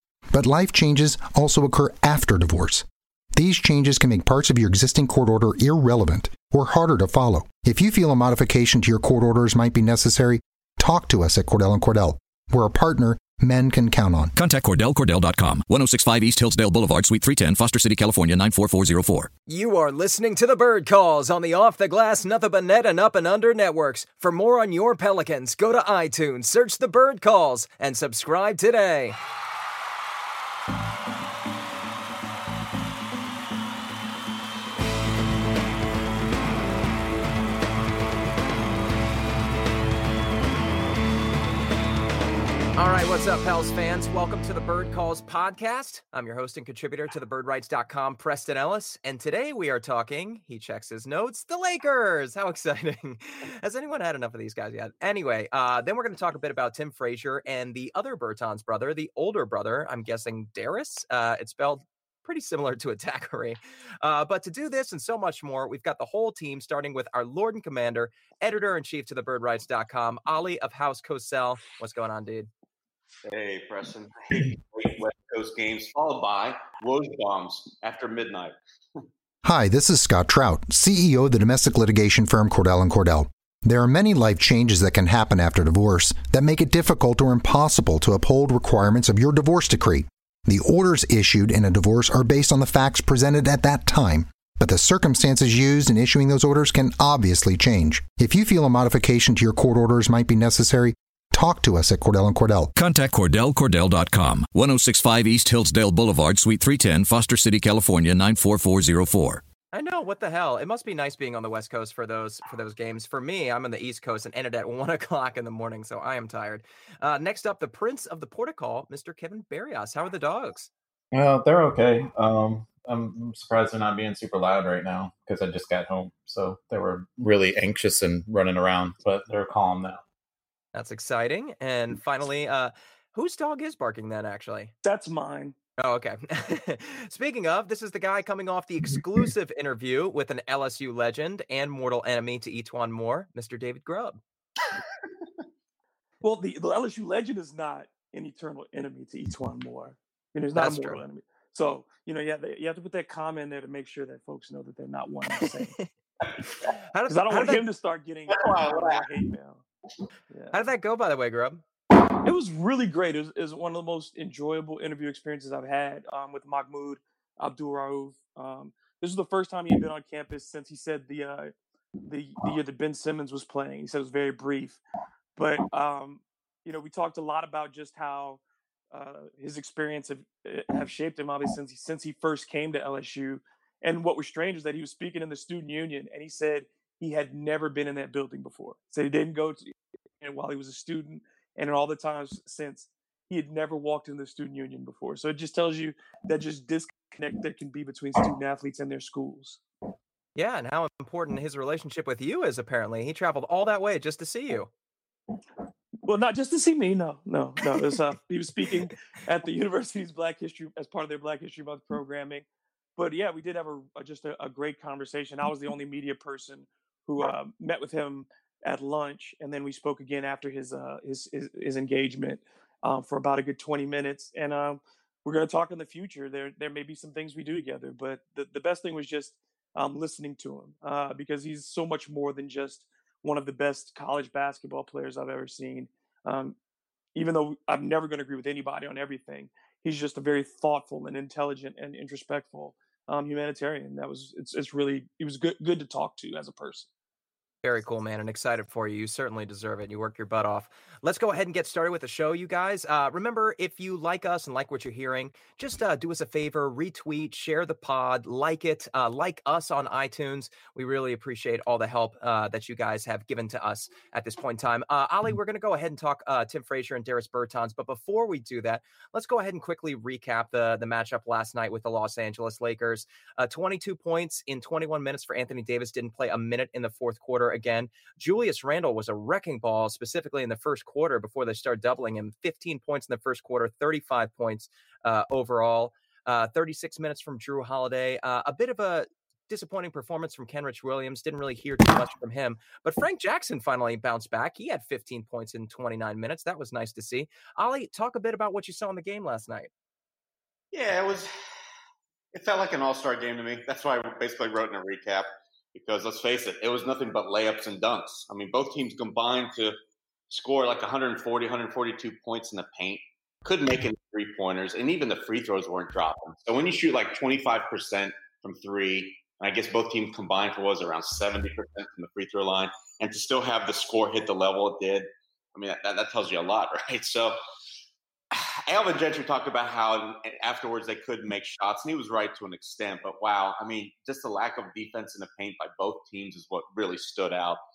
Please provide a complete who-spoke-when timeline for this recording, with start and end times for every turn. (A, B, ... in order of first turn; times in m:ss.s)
0:00.3-0:14.3 A
0:14.4-0:19.3 B
0:19.5-0:29.2 C
0:42.8-1:12.5 C
1:13.3-1:18.6 D
1:19.4-1:42.7 A
1:42.8-1:49.4 B
1:49.7-2:00.7 C
2:01.1-2:10.0 E
2:10.7-2:14.7 C
2:14.8-2:15.6 F
2:15.8-2:24.2 C
2:26.2-2:35.7 F
2:30.6-2:31.0 C
2:35.4-2:35.8 C
2:36.9-2:37.6 C
2:37.1-2:39.6 F
2:38.3-2:39.1 D
2:40.5-2:41.6 C
2:42.2-2:51.5 F
2:52.0-2:54.8 F
2:55.4-2:58.4 F
2:58.9-3:09.7 F
3:10.2-3:19.6 F
3:20.4-3:24.7 C
3:26.0-3:32.5 F
3:33.0-3:56.6 F
3:57.2-4:06.9 F
4:07.6-4:59.7 C
5:00.7-5:01.3 D
5:02.3-5:09.8 D
5:10.3-5:27.4 D
5:28.3-5:37.6 D